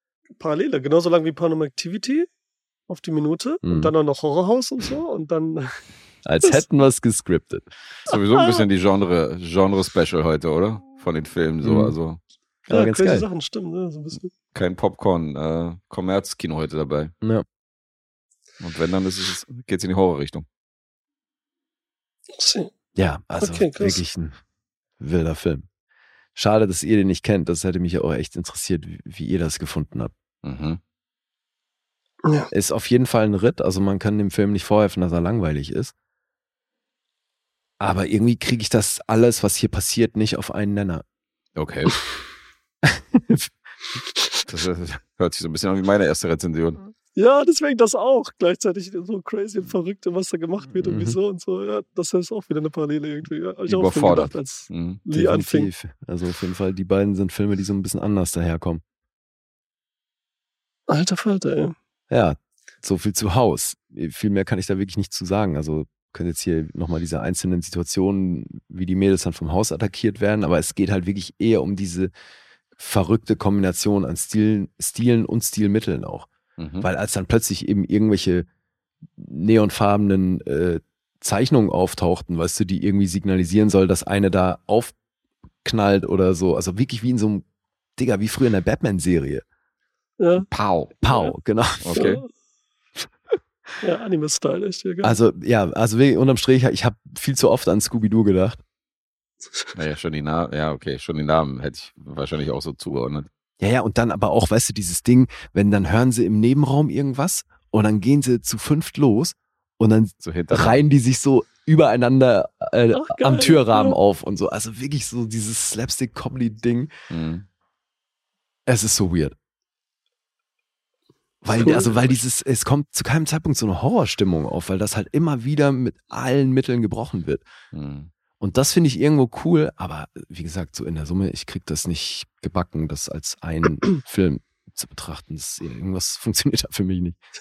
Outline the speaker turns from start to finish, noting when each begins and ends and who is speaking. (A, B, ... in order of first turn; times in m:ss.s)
0:00.4-0:02.3 A
0:02.9-0:05.8 A
0:03.6-0:03.9 B
0:06.2-0:07.7 B
0:08.0-0:12.2 C
0:08.1-0:08.6 A
0:11.6-0:11.9 B
0:12.7-0:13.2 B
0:12.7-0:14.3 A
0:14.5-0:17.1 C
0:18.6-0:20.4 C
0:22.4-0:22.7 A
0:23.0-0:24.4 B
0:23.4-0:24.0 A
0:25.0-0:25.7 B
0:26.4-0:30.1 B
0:30.4-0:30.8 C
0:32.5-0:35.9 B
0:37.8-0:41.0 B
0:41.6-0:42.0 C
0:42.8-0:43.5 B
0:44.4-0:46.8 C
0:47.1-0:55.7 A
0:50.8-0:51.2 B
0:53.7-0:55.0 C
0:55.1-0:58.8 B
1:00.9-1:01.7 A
1:02.1-1:12.1 B
1:12.8-1:16.3 B
1:16.6-1:16.8 C
1:16.8-1:18.5 B
1:19.2-1:24.9 B
1:25.6-1:27.4 B
1:28.0-1:29.4 B
1:30.2-1:30.4 A
1:30.5-1:30.9 C
1:31.0-1:32.2 B
1:31.8-1:32.2 C
1:31.9-1:32.2 A
1:33.8-1:35.2 A
1:35.0-1:38.6 B
1:39.7-1:43.3 C
1:43.6-1:56.9 B
1:50.2-1:50.8 C
1:52.9-1:54.0 A
1:57.1-1:57.4 C
1:58.7-1:59.4 B
2:01.4-2:07.4 B
2:01.6-2:01.9 A
2:07.7-2:08.1 C
2:08.4-2:17.2 B